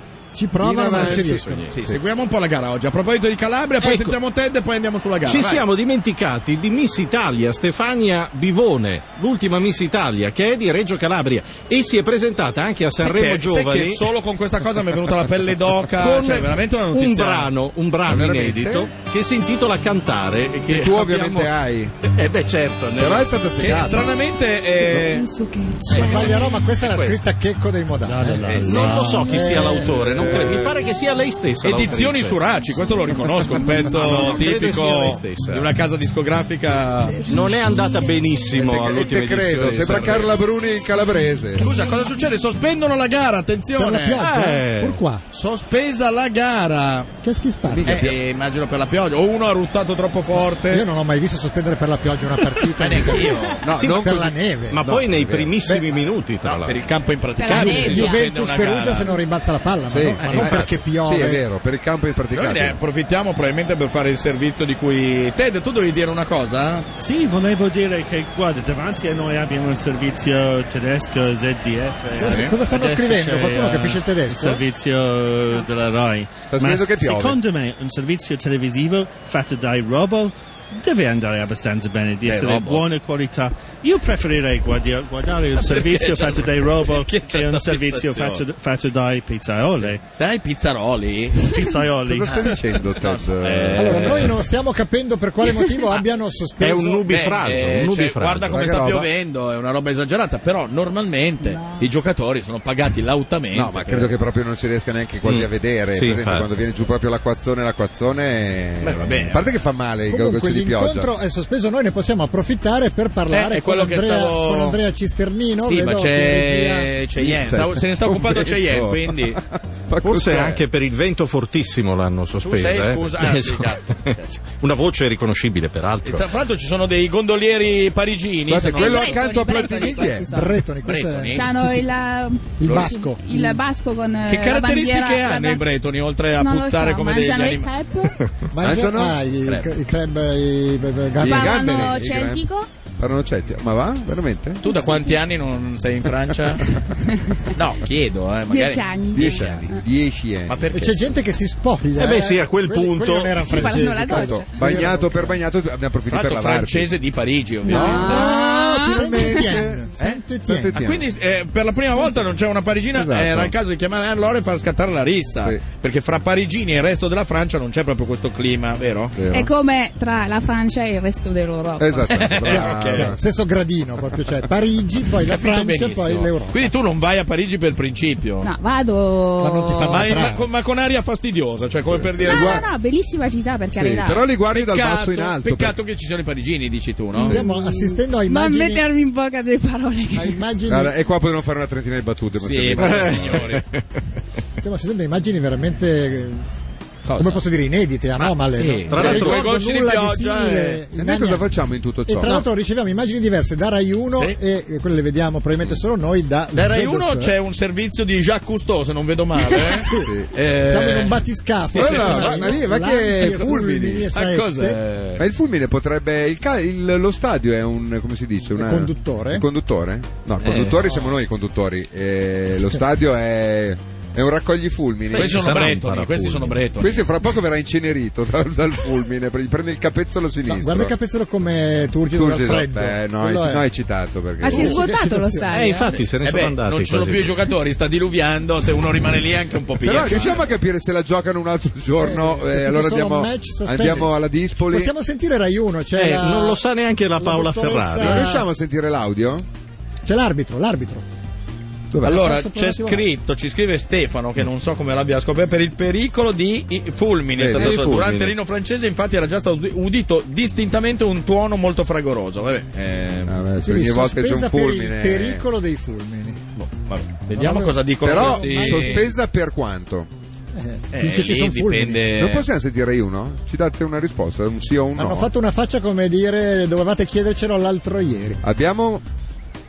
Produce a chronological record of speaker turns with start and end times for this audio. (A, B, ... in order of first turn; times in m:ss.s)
0:00.3-0:01.7 A
0:00.6-0:02.0 B
0:00.9-0:01.7 C
0:01.7-0:05.6 D
0:03.8-0:04.2 C
0:05.2-0:14.1 C
0:13.0-0:17.5 D
0:15.9-0:21.5 C
0:18.0-0:18.9 B
0:20.7-0:22.0 B
0:22.0-0:23.9 C
0:23.0-0:24.1 B
0:23.6-0:25.2 D
0:24.9-0:26.8 E
0:25.8-0:30.2 A
0:26.9-0:27.1 C
0:28.0-0:29.8 F
0:28.6-0:32.4 C
0:29.9-0:30.8 B
0:31.6-0:37.2 D
0:32.7-0:34.0 E
0:33.8-0:35.7 C
0:37.0-0:38.3 E
0:37.2-0:40.3 C
0:38.6-0:39.1 D
0:38.6-0:41.6 B
0:39.6-0:40.3 D
0:41.6-0:42.3 E
0:41.6-0:44.2 D
0:43.8-0:45.2 A
0:44.2-0:45.0 C
0:45.3-0:47.1 D
0:47.2-0:48.0 A
0:47.7-0:48.2 B
0:47.8-0:50.8 D
0:50.5-0:54.8 A
0:52.8-0:53.6 D
0:53.6-0:55.6 B
0:53.8-0:56.8 C
0:55.6-0:55.9 A
0:56.4-0:59.2 D
0:57.4-0:58.2 E
0:57.5-1:01.4 A
0:59.9-1:02.8 B
1:00.2-1:00.5 D
1:00.2-1:00.7 C
1:02.3-1:06.9 D
1:07.0-1:30.0 F
1:12.1-1:14.6 A
1:12.1-1:12.5 D
1:16.5-1:17.4 B
1:22.2-1:22.9 D
1:25.6-1:28.4 D
1:29.8-1:31.6 D
1:31.4-1:32.6 F
1:32.0-1:34.3 B
1:32.4-1:34.3 D
1:33.8-1:37.1 A
1:33.8-1:34.2 C
1:36.6-1:38.6 C
1:37.1-1:44.1 D
1:38.5-1:39.1 B
1:43.5-1:51.1 B
1:45.2-1:46.5 C
1:48.8-1:49.5 D
1:50.1-1:56.9 A
1:53.3-1:54.8 D
1:55.6-1:59.4 D
1:57.2-2:00.6 B
2:00.0-2:06.3 C
2:02.4-2:04.4 D
2:06.0-2:09.2 D
2:08.5-2:10.3 B
2:08.7-2:10.6 E
2:10.2-2:11.7 A
2:10.8-2:11.5 D
2:11.3-2:15.6 E
2:12.6-2:13.6 A
2:12.6-2:12.9 D
2:14.3-2:17.7 D
2:16.4-2:18.2 E
2:18.5-2:22.0 A
2:18.6-2:19.2 B
2:19.4-2:19.7 D
2:21.2-2:22.4 B
2:21.2-2:22.7 E
2:23.0-2:24.6 B
2:24.6-2:26.6 D
2:24.6-2:25.2 E
2:27.1-2:27.5 E
2:27.5-2:29.7 D
2:28.5-2:29.8 E
2:29.1-2:30.7 B
2:30.5-2:31.1 D
2:30.7-2:35.4 A
2:32.0-2:33.5 C
2:33.4-2:34.9 E
2:33.5-2:36.9 B
2:36.1-2:38.3 D
2:37.6-2:39.4 E
2:37.6-2:41.0 B
2:37.9-2:40.8 A
2:40.7-2:49.2 D
2:42.9-2:43.5 B
2:49.1-2:49.5 B
2:49.3-2:52.3 E
2:51.8-2:53.2 B
2:52.1-2:53.1 D
2:52.5-2:56.7 A
2:55.2-2:58.5 D
2:58.4-3:00.2 E
2:59.4-3:00.5 A
2:59.9-3:02.6 D
3:01.8-3:02.7 B
3:02.2-3:04.2 E
3:03.7-3:05.7 B
3:04.0-3:07.4 D
3:07.2-3:10.4 E
3:07.2-3:08.9 A
3:10.1-3:11.0 A
3:10.7-3:13.5 B
3:12.4-3:13.6 D
3:12.8-3:13.8 C
3:14.6-3:16.4 A
3:17.0-3:17.4 D
3:17.2-3:21.5 A
3:18.5-3:20.8 D
3:18.8-3:19.4 C
3:21.0-3:22.4 B
3:22.0-3:27.3 A
3:26.5-3:32.6 D
3:29.5-3:34.8 A
3:30.0-3:30.3 B
3:31.7-3:34.0 B
3:33.2-3:35.2 D
3:35.2-3:45.7 B
3:38.6-3:39.4 A
3:40.5-3:41.1 A
3:45.1-3:46.7 C
3:45.1-3:47.0 D
3:46.8-3:50.9 B
3:50.5-3:53.6 A
3:52.1-3:54.8 B
3:54.4-3:56.0 E
3:54.4-3:55.5 A
3:55.5-3:57.4 C
3:55.9-4:00.4 D
3:59.8-4:04.9 B
4:02.0-4:06.6 A
4:06.0-4:08.3 C
4:07.2-4:08.5 A
4:08.0-4:09.4 B
4:10.0-4:11.0 A
4:11.9-4:12.2 B
4:12.0-4:13.0 A
4:12.0-4:23.4 D
4:17.4-4:18.0 B
4:17.5-4:18.3 C
4:23.3-4:25.4 B
4:23.6-4:26.4 A
4:26.6-4:29.0 D
4:27.3-4:29.1 A
4:28.0-4:30.1 B
4:30.5-4:32.1 A
4:30.9-4:32.5 D
4:32.2-4:35.3 B
4:35.0-4:38.4 A
4:38.4-4:39.0 B